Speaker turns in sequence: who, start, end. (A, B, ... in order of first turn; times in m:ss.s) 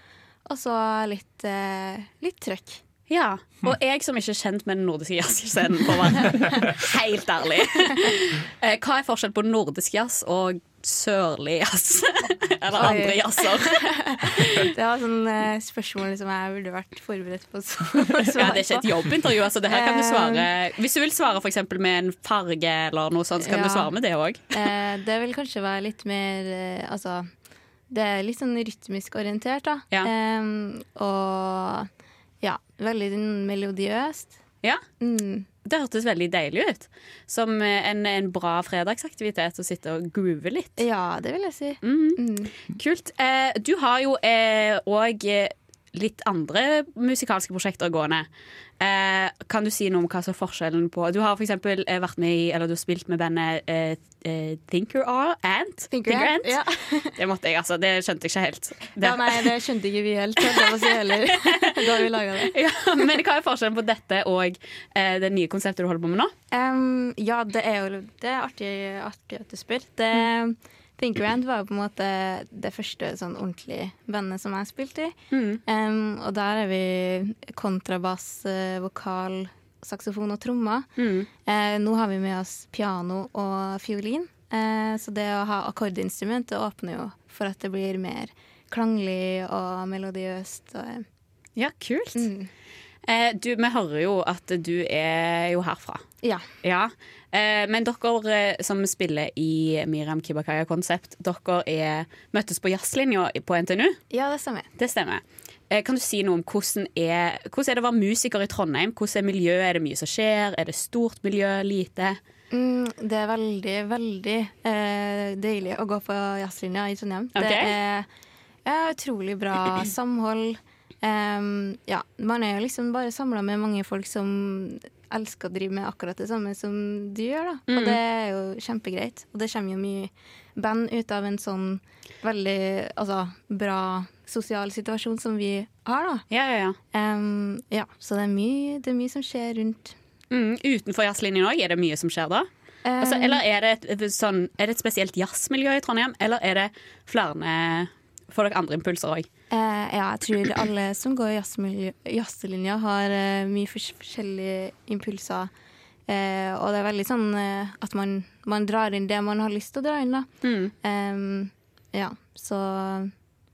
0:00.4-0:02.8 A
0:03.1-0:13.8 B
0:06.3-0:06.7 A
0:12.8-0:20.5 A
0:14.4-0:14.6 B
0:18.3-0:24.4 B
0:23.4-0:23.9 A
0:24.5-0:27.3 A
0:27.9-0:31.9 A
0:32.4-0:34.4 A
0:35.0-0:35.5 A
0:35.6-0:40.8 B
0:40.8-0:42.5 A
0:41.8-0:48.3 B
0:48.8-0:56.6 B
0:55.9-0:57.1 A
0:57.2-0:59.4 B
0:59.0-1:02.5 A
1:00.4-1:00.9 B
1:01.5-1:01.8 B
1:02.5-1:06.3 B
1:06.5-1:15.1 A
1:15.3-1:15.6 B
1:15.6-1:20.9 A
1:21.0-1:21.3 B
1:21.4-1:31.0 A
1:31.6-1:32.3 B
1:32.1-1:32.5 A
1:33.0-1:36.0 B
1:36.6-1:44.0 B
1:44.1-1:44.7 A
1:44.8-1:52.2 B
1:52.5-1:58.1 A
1:57.4-1:57.7 B
1:58.6-2:16.2 A
2:07.7-2:08.0 B
2:16.3-2:16.8 B
2:16.9-2:19.9 A
2:20.3-2:22.5 B
2:22.8-2:23.4 A
2:23.0-2:29.3 B
2:29.5-2:35.5 A
2:36.1-2:40.3 A
2:40.4-2:40.7 B
2:40.8-2:43.1 A